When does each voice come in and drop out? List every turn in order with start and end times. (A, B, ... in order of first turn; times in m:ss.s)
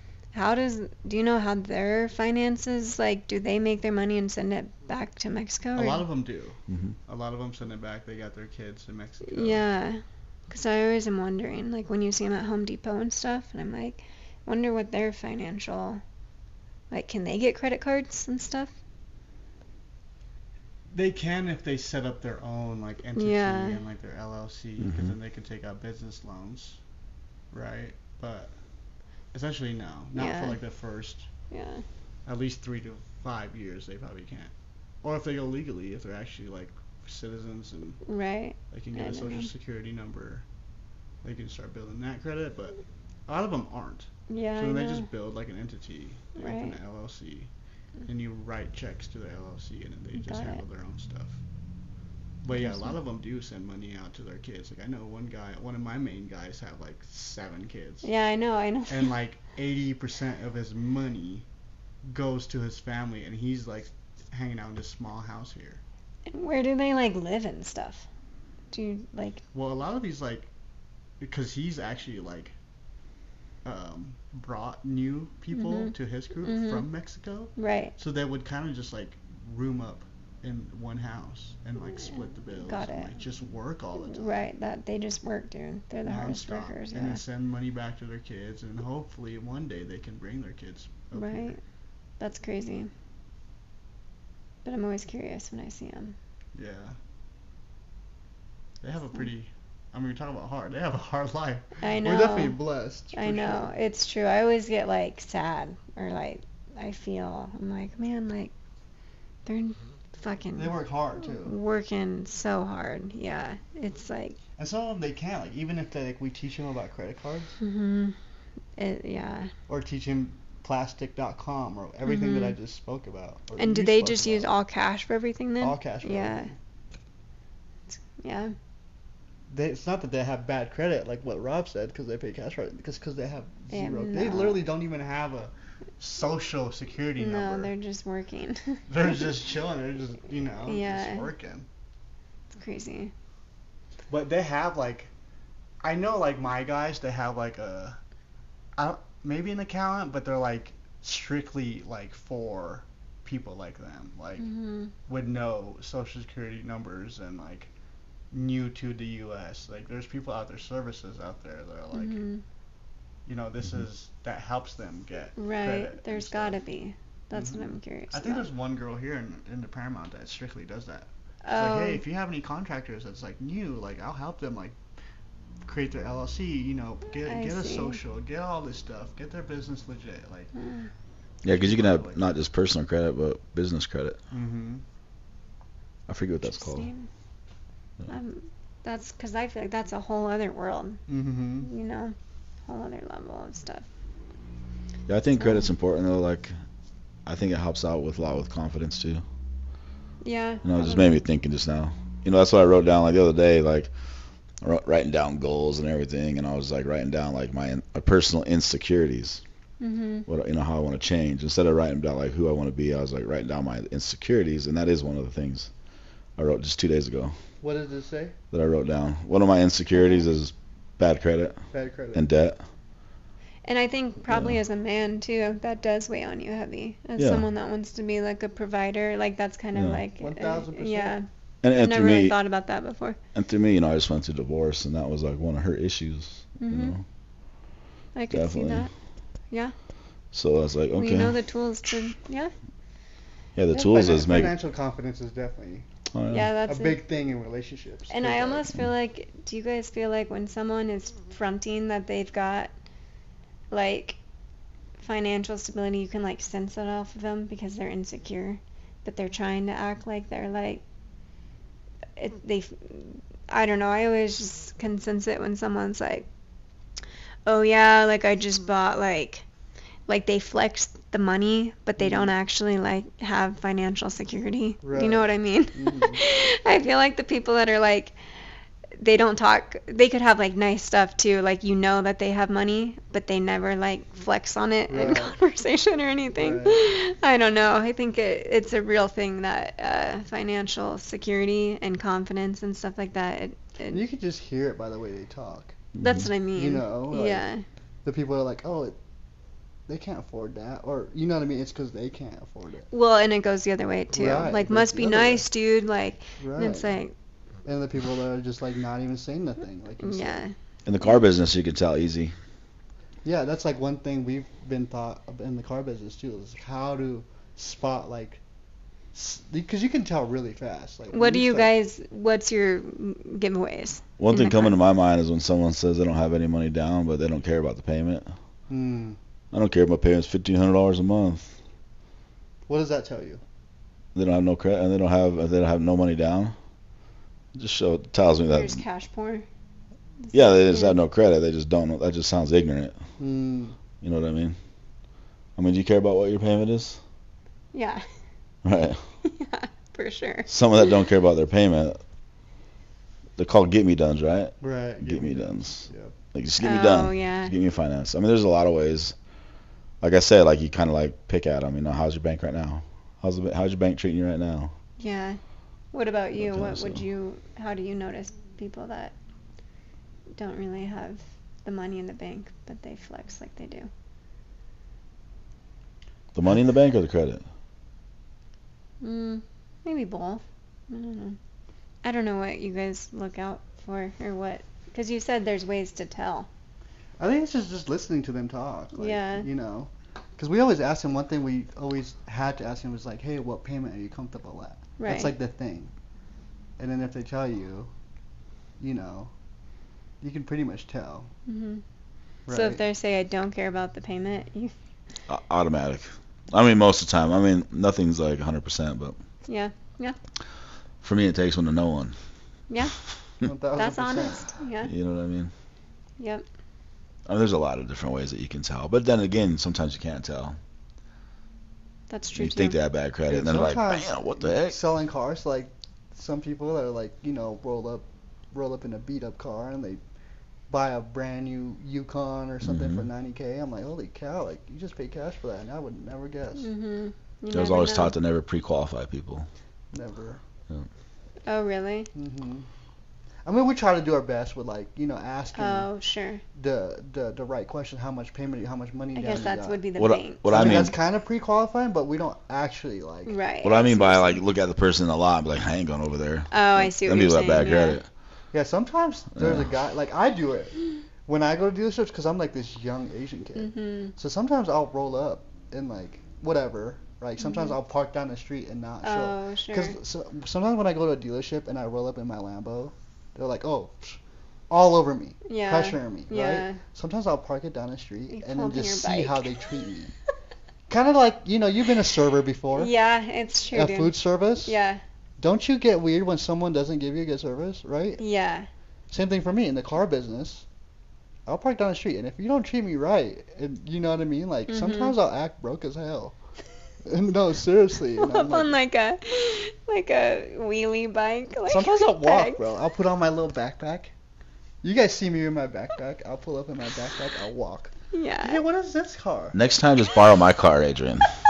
0:00.3-0:06.0 A
0:05.7-0:09.6 B
0:06.7-0:07.0 C
0:09.3-0:16.0 A
0:16.9-0:18.7 A
0:20.9-0:26.8 B
0:23.2-0:23.8 A
0:24.8-0:25.1 C
0:27.5-0:28.5 B
0:29.3-0:31.3 B
0:30.2-0:30.6 A
0:31.5-0:31.8 A
0:32.3-0:34.5 B
0:35.0-0:38.0 B
0:38.1-0:39.5 A
0:38.7-0:40.4 B
0:41.2-0:47.5 B
0:44.3-0:45.1 A
0:46.4-0:46.8 A
0:48.1-0:51.4 B
0:50.2-0:50.6 A
0:52.4-0:58.1 B
0:52.5-0:52.9 A
0:58.0-0:59.1 A
0:58.9-1:01.4 B
1:02.0-1:05.8 B
1:06.3-1:08.1 A
1:08.7-1:09.4 A
1:09.5-1:10.5 B
1:11.2-1:12.5 B
1:13.6-1:24.4 B
1:15.5-1:15.9 A
1:16.4-1:16.9 A
1:17.6-1:17.9 A
1:22.6-1:23.1 A
1:24.0-1:27.2 A
1:26.1-1:31.6 B
1:31.1-1:31.6 A
1:32.2-1:32.9 A
1:34.6-1:36.2 A
1:36.6-1:37.0 B
1:38.8-1:43.7 B
1:41.8-1:42.6 A
1:43.1-1:48.5 A
1:49.4-1:54.4 A
1:50.6-1:51.6 B
1:54.6-1:57.6 B
1:57.6-1:58.2 A
1:58.8-1:59.5 A
1:59.7-2:04.5 B
2:02.1-2:02.6 A
2:03.6-2:06.5 A
2:05.6-2:06.6 B
2:07.9-2:08.6 A
2:09.5-2:17.7 B
2:13.7-2:14.6 A
2:17.2-2:19.3 A
2:18.9-2:21.7 B
2:20.6-2:21.3 A
2:22.5-2:23.1 A
2:24.1-2:25.1 B
2:25.8-2:28.0 B
2:28.8-2:34.5 B
2:34.4-2:34.9 A
2:35.1-2:37.7 B
2:38.3-2:42.2 B
2:41.9-2:42.4 A
2:43.3-2:46.6 B
2:45.4-2:48.5 A
2:47.3-2:54.8 B
2:51.4-2:52.0 A
2:55.6-3:00.5 B
2:57.2-2:58.0 A
3:00.6-3:00.9 A
3:01.4-3:04.2 C
3:01.4-3:02.2 B
3:04.3-3:04.8 B
3:06.1-3:06.9 C
3:06.4-3:07.1 A
3:08.1-3:11.0 A
3:11.1-3:11.7 B
3:11.6-3:12.1 A
3:12.7-3:13.9 A
3:15.1-3:16.6 C
3:15.4-3:15.7 A
3:17.3-3:19.2 C
3:20.2-3:21.2 A
3:20.6-3:23.9 C
3:24.6-3:29.4 C
3:29.8-3:30.3 A
3:30.3-3:35.7 C
3:36.4-3:37.4 C
3:37.6-3:38.4 B
3:38.5-3:41.6 C
3:39.9-3:40.3 A
3:41.7-3:42.2 B
3:42.1-3:42.6 C
3:43.6-3:53.2 A
3:44.3-3:44.5 C
3:47.2-3:47.4 C
3:49.7-3:50.0 C
3:50.2-3:51.2 B
3:51.6-3:52.4 C
3:53.4-3:57.0 C
3:56.6-3:57.0 A
3:58.1-3:58.9 A
3:58.3-3:58.9 C
4:00.3-4:01.4 C
4:01.0-4:02.5 A
4:03.6-4:04.6 C
4:03.7-4:05.9 B
4:06.1-4:06.5 C
4:06.3-4:07.0 A
4:06.7-4:08.7 B
4:08.1-4:12.7 A
4:13.7-4:14.2 A
4:15.0-4:20.8 A
4:22.2-4:26.3 A
4:27.4-4:29.4 A
4:30.1-4:38.2 A
4:32.0-4:32.3 B
4:34.8-4:36.2 B
4:39.0-4:54.0 A
4:44.9-4:45.4 B
4:46.4-4:46.8 B
4:53.9-4:55.8 B
4:56.0-4:56.3 C
4:56.0-4:57.6 A
4:56.6-4:57.5 B
4:58.0-4:59.0 B
4:59.9-5:02.9 B
5:02.9-5:07.1 A
5:04.1-5:05.5 B
5:06.4-5:07.0 B
5:07.6-5:10.4 B
5:10.0-5:11.2 A
5:10.9-5:12.3 C
5:13.2-5:18.4 B
5:19.1-5:21.7 B
5:21.1-5:24.8 A
5:24.2-5:28.3 C
5:28.7-5:29.2 B
5:29.5-5:31.5 C
5:32.7-5:33.4 B
5:34.1-5:36.6 C
5:37.6-5:38.8 C
5:38.5-5:39.5 A
5:40.2-5:41.0 A
5:40.3-5:43.0 C
5:43.2-5:43.8 B
5:44.0-5:44.6 C
5:45.6-5:47.0 C
5:47.7-5:48.0 A
5:48.6-5:49.0 C
5:49.2-5:50.5 A
5:50.5-5:52.0 C
5:53.4-5:59.1 C
5:54.6-5:56.1 B
5:56.6-5:57.5 A
6:00.0-6:04.7 C
6:05.0-6:05.4 A
6:05.9-6:09.1 A
6:06.4-6:07.0 C
6:10.3-6:13.9 A
6:16.3-6:17.4 C
6:19.0-6:21.4 A
6:22.0-6:26.5 A
6:27.2-6:35.9 B
6:29.0-6:29.5 A
6:35.0-6:35.3 A
6:36.8-6:37.9 B
6:38.8-6:39.3 B
6:40.2-6:41.3 B
6:41.5-6:41.8 A
6:42.5-6:42.8 B
6:42.5-6:44.7 A
6:45.3-6:49.2 C
6:49.5-6:50.2 A
6:51.0-6:52.2 C
6:52.7-6:53.0 A
6:53.4-6:54.5 B
6:53.8-6:54.9 A
6:54.8-6:55.5 C
6:56.2-6:56.4 A
6:57.3-7:00.6 C
7:02.1-7:02.8 A
7:02.4-7:04.8 C
7:03.3-7:10.0 B
7:10.7-7:16.7 B
7:12.6-7:13.1 C
7:16.6-7:18.1 A
7:17.5-7:19.5 C
7:19.9-7:20.4 B
7:21.4-7:22.1 A
7:22.1-7:22.7 B
7:23.4-7:25.9 B
7:25.6-7:26.4 A
7:26.6-7:29.8 B
7:29.1-7:30.8 A
7:30.0-7:31.0 C
7:30.4-7:33.4 B
7:33.3-7:34.4 A
7:33.6-7:38.1 C
7:36.5-7:38.0 A
7:38.5-7:54.2 B
7:39.4-7:39.7 C
7:43.6-7:44.1 A
7:47.4-7:47.7 A
7:49.0-7:50.0 A
7:54.7-8:00.1 B
7:55.4-7:56.8 A
7:58.3-7:59.7 A
8:00.9-8:02.9 B
8:02.7-8:05.0 A
8:03.7-8:04.8 B
8:05.4-8:08.2 B
8:08.2-8:08.7 A
8:09.1-8:10.7 B
8:11.4-8:16.4 B
8:14.7-8:15.2 A
8:17.0-8:18.8 B
8:18.2-8:22.6 A
8:21.7-8:24.1 B
8:24.8-8:29.6 B
8:28.1-8:28.6 A
8:29.5-8:31.4 C